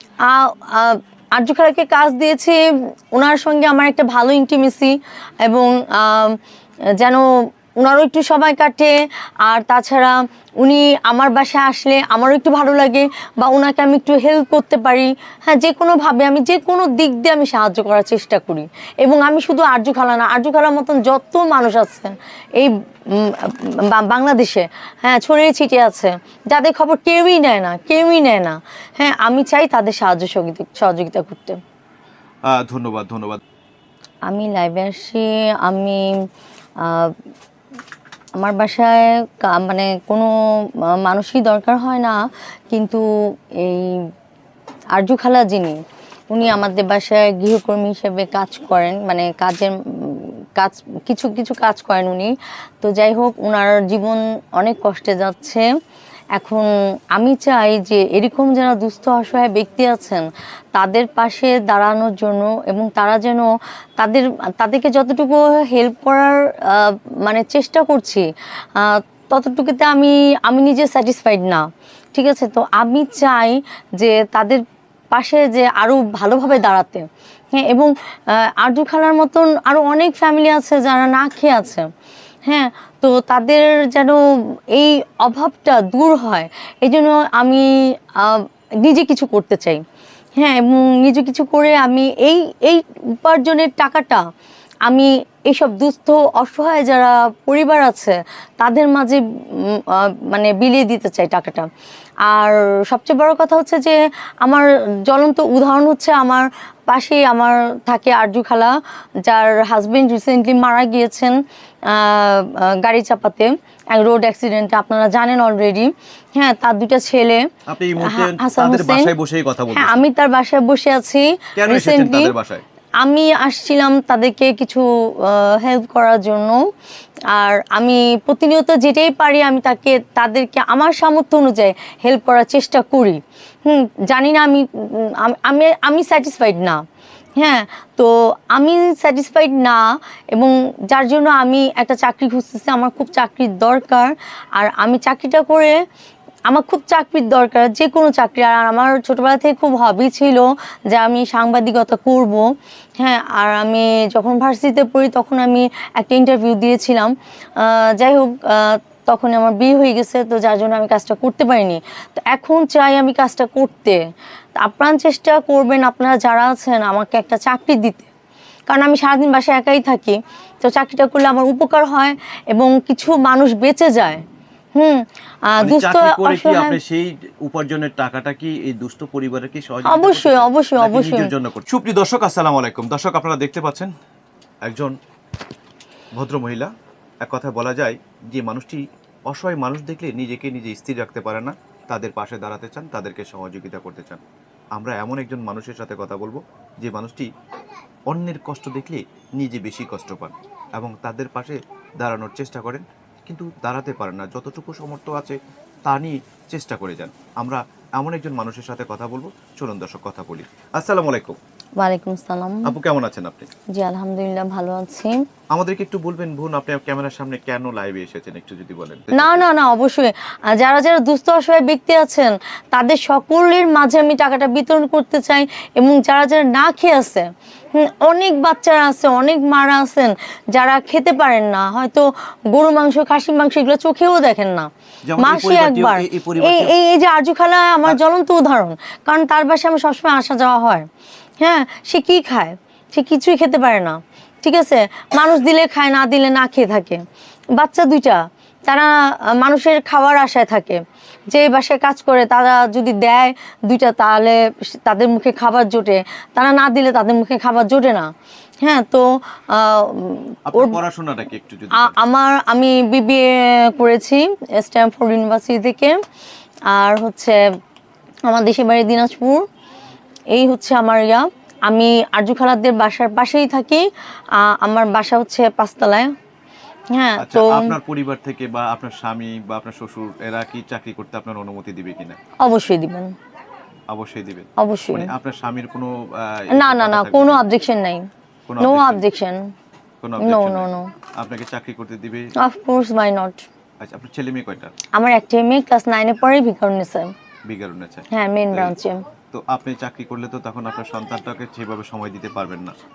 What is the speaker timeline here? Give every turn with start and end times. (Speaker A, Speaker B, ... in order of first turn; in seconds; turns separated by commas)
Speaker A: 0.2-2.6, Speaker A: 3.1-6.4, Speaker A: 7.0-31.6, Speaker B: 32.5-33.4, Speaker A: 34.3-36.1, Speaker A: 36.8-37.1, Speaker A: 38.4-40.3, Speaker A: 41.0-42.2, Speaker A: 42.7-44.0, Speaker A: 44.9-45.8, Speaker A: 46.3-55.6, Speaker A: 56.4-74.6, Speaker A: 75.1-81.9, Speaker A: 82.5-84.2, Speaker A: 84.7-89.8, Speaker A: 90.4-94.2, Speaker A: 94.8-101.7, Speaker A: 102.2-117.5, Speaker B: 117.7-120.0, Speaker A: 118.0-119.1, Speaker A: 119.7-122.3, Speaker B: 121.5-122.6, Speaker A: 123.0-126.6, Speaker A: 127.3-136.8, Speaker A: 137.4-145.8, Speaker A: 146.5-164.0, Speaker A: 164.6-168.1, Speaker A: 168.7-174.2, Speaker A: 174.8-176.8, Speaker B: 175.6-183.9, Speaker A: 179.8-181.3, Speaker B: 184.6-184.9, Speaker B: 186.1-186.7, Speaker B: 187.2-194.2, Speaker B: 194.7-197.3, Speaker B: 198.1-211.4, Speaker A: 211.8-212.7, Speaker B: 212.6-213.5, Speaker A: 213.7-215.2, Speaker B: 215.5-219.5, Speaker A: 219.1-240.8, Speaker B: 235.1-236.7, Speaker A: 241.4-247.0, Speaker A: 247.5-258.1, Speaker A: 258.6-260.8, Speaker B: 260.5-261.9, Speaker A: 261.7-266.0, Speaker A: 266.7-267.4, Speaker A: 268.3-269.4, Speaker A: 270.3-276.1, Speaker A: 276.9-277.8, Speaker B: 277.2-282.2, Speaker A: 282.4-283.1, Speaker B: 283.9-287.4, Speaker A: 284.6-285.1, Speaker A: 286.5-288.1, Speaker B: 288.5-289.1, Speaker A: 288.6-289.4, Speaker B: 290.0-292.3, Speaker A: 290.2-290.9, Speaker A: 292.4-293.5, Speaker B: 293.8-294.7, Speaker A: 294.9-297.1, Speaker B: 297.5-298.7, Speaker A: 298.1-299.0, Speaker B: 299.3-302.7